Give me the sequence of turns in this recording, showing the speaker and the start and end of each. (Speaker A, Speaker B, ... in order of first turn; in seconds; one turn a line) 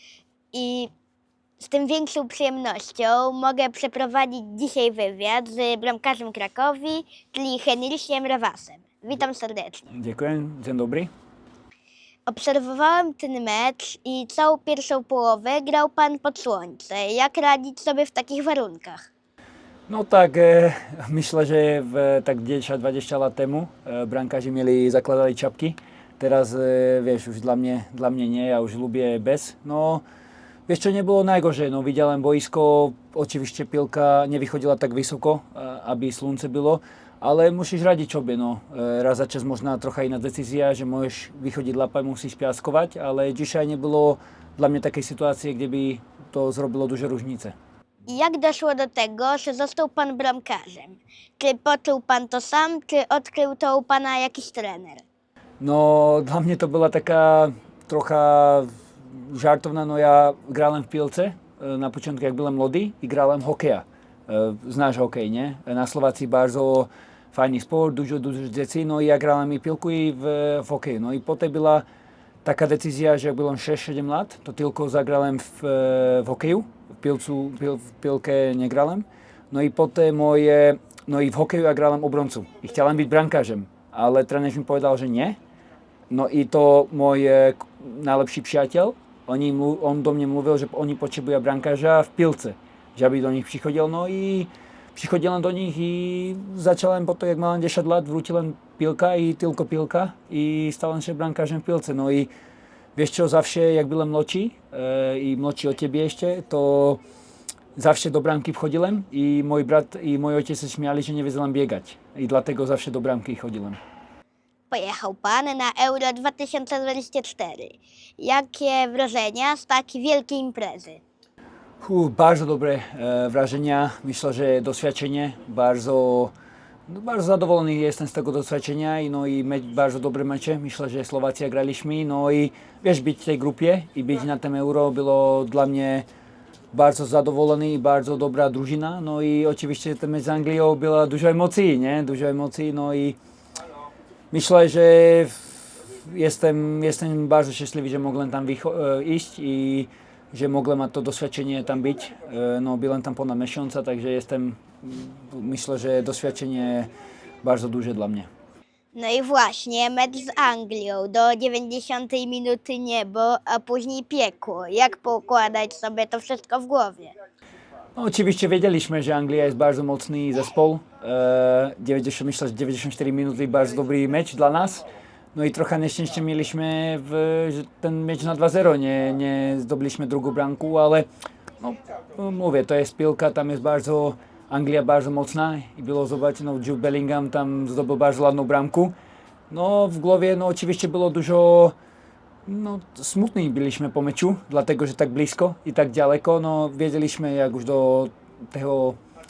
Speaker A: 0.5-0.9
Speaker A: 1.6-9.9
Speaker B: 9.9-11.1
Speaker A: 12.3-19.1
Speaker B: 19.9-30.0
Speaker B: 30.7-47.5
Speaker A: 48.1-55.1
Speaker B: 55.6-71.8
Speaker B: 72.4-85.4
Speaker B: 86.1-102.3
Speaker B: 103.0-107.0
Speaker B: 107.8-113.8
Speaker A: 114.7-121.0
Speaker B: 121.8-126.3
Speaker B: 126.9-136.1
Speaker B: 136.7-143.2
Speaker B: 144.3-156.9
Speaker B: 157.4-158.3
Speaker A: 158.9-167.1
Speaker B: 167.9-174.8
Speaker B: 175.3-181.1
Speaker B: 181.6-188.9
Speaker B: 189.5-191.8
Speaker B: 192.5-199.0